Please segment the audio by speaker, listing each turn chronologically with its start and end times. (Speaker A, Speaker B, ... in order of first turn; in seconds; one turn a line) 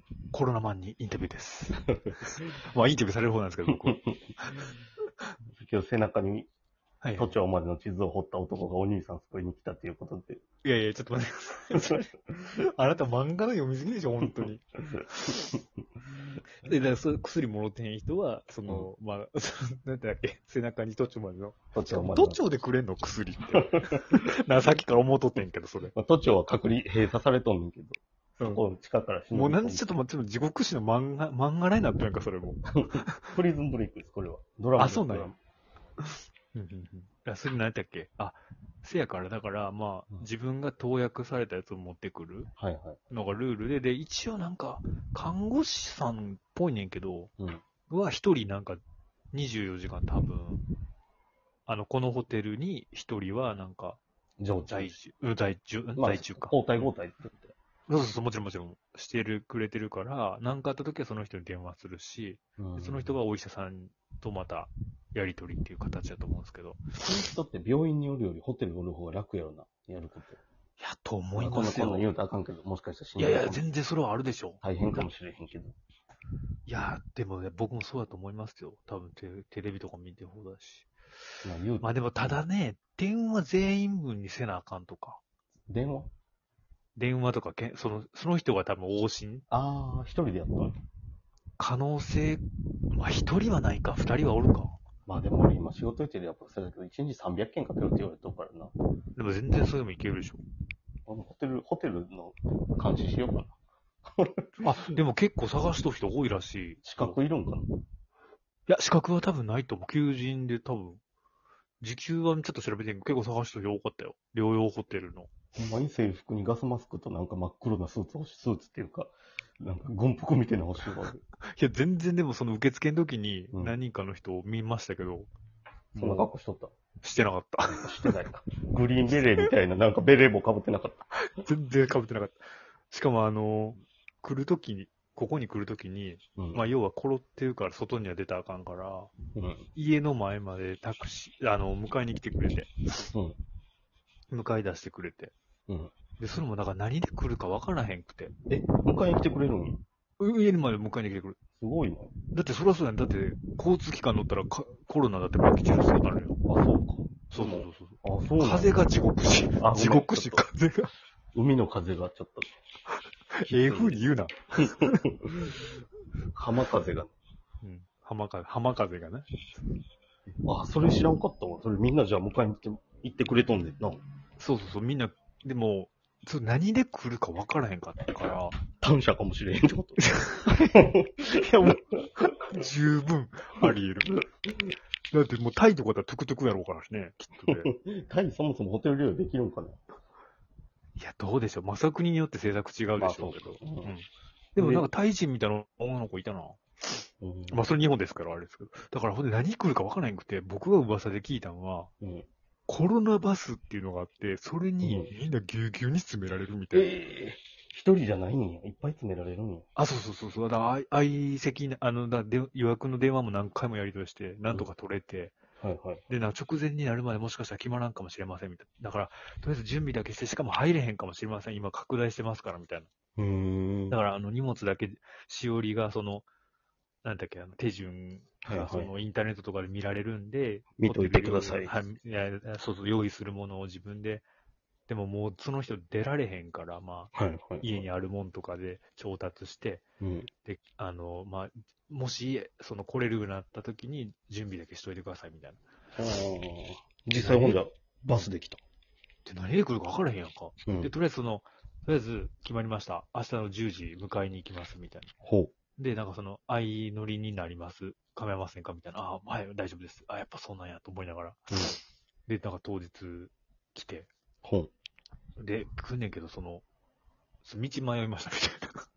Speaker A: 0.3-4.7
Speaker B: 3.8-4.1
Speaker B: 5.6-6.5
Speaker A: 7.0-7.4
Speaker B: 7.2-10.4
Speaker A: 10.6-15.5
Speaker B: 11.7-12.0
Speaker B: 14.4-15.0
Speaker A: 16.6-25.9
Speaker B: 21.7-22.4
Speaker B: 23.6-24.0
Speaker B: 25.9-29.9
Speaker A: 29.3-33.3
Speaker B: 32.8-35.4
Speaker A: 34.8-35.3
Speaker A: 36.0-42.5
Speaker B: 42.6-43.0
Speaker A: 43.1-47.3
Speaker A: 47.9-48.8
Speaker A: 49.3-50.6
Speaker A: 51.7-54.0
Speaker B: 54.4-54.9
Speaker A: 54.7-56.6
Speaker B: 56.0-57.5
Speaker A: 57.9-66.8
Speaker B: 62.6-63.1
Speaker B: 67.0-70.4
Speaker A: 70.8-72.1
Speaker B: 71.4-73.6
Speaker A: 73.2-74.6
Speaker B: 74.6-75.8
Speaker A: 76.7-80.9
Speaker B: 81.4-81.9
Speaker A: 81.8-85.2
Speaker B: 85.7-86.1
Speaker A: 87.0-89.5
Speaker B: 89.5-90.8
Speaker A: 91.6-94.8
Speaker B: 95.1-98.7
Speaker A: 99.2-100.4
Speaker B: 101.1-103.5
Speaker B: 104.2-104.5
Speaker A: 104.6-107.2
Speaker B: 106.8-107.7
Speaker A: 108.7-111.0
Speaker A: 111.8-115.3
Speaker B: 115.6-121.2
Speaker A: 121.4-125.3
Speaker A: 125.9-126.3
Speaker B: 126.0-126.7
Speaker A: 127.0-128.1
Speaker B: 127.7-131.1
Speaker A: 131.4-132.4
Speaker A: 132.9-139.1
Speaker B: 136.4-136.7
Speaker B: 139.3-139.7
Speaker A: 139.8-143.1
Speaker B: 143.1-143.4
Speaker A: 144.3-145.3
Speaker A: 146.2-148.3
Speaker B: 148.5-149.8
Speaker A: 150.2-151.4
Speaker B: 151.6-152.1
Speaker A: 152.3-156.4
Speaker B: 156.5-158.9
Speaker A: 157.3-160.9
Speaker B: 159.6-160.4
Speaker B: 161.3-162.5
Speaker A: 163.4-165.0
Speaker B: 163.4-164.0
Speaker B: 164.6-165.6
Speaker B: 166.3-167.1
Speaker A: 167.6-169.3
Speaker B: 170.4-174.0
Speaker A: 174.4-178.6
Speaker B: 178.8-181.4
Speaker A: 180.1-180.7
Speaker A: 181.3-184.1
Speaker B: 182.2-182.6
Speaker A: 185.1-187.7
Speaker B: 187.5-189.8
Speaker A: 191.0-201.9
Speaker B: 193.0-193.9
Speaker B: 194.6-194.9
Speaker B: 197.2-197.6
Speaker B: 202.0-202.3
Speaker A: 202.7-206.9
Speaker B: 204.8-205.1
Speaker B: 206.7-209.7
Speaker A: 209.8-215.4
Speaker B: 215.6-216.0
Speaker A: 216.1-222.9
Speaker B: 223.2-224.0
Speaker A: 223.9-226.3
Speaker A: 227.0-234.3
Speaker B: 228.4-228.9
Speaker B: 230.8-231.7
Speaker A: 234.9-239.8
Speaker B: 237.2-237.8
Speaker B: 240.0-240.3
Speaker A: 240.4-245.6
Speaker B: 246.0-248.6
Speaker A: 247.1-247.6
Speaker A: 249.2-255.1
Speaker B: 250.7-250.9
Speaker B: 255.2-255.5
Speaker A: 255.8-261.5
Speaker A: 262.3-264.1
Speaker B: 264.4-264.7
Speaker A: 265.4-266.6
Speaker A: 267.4-268.9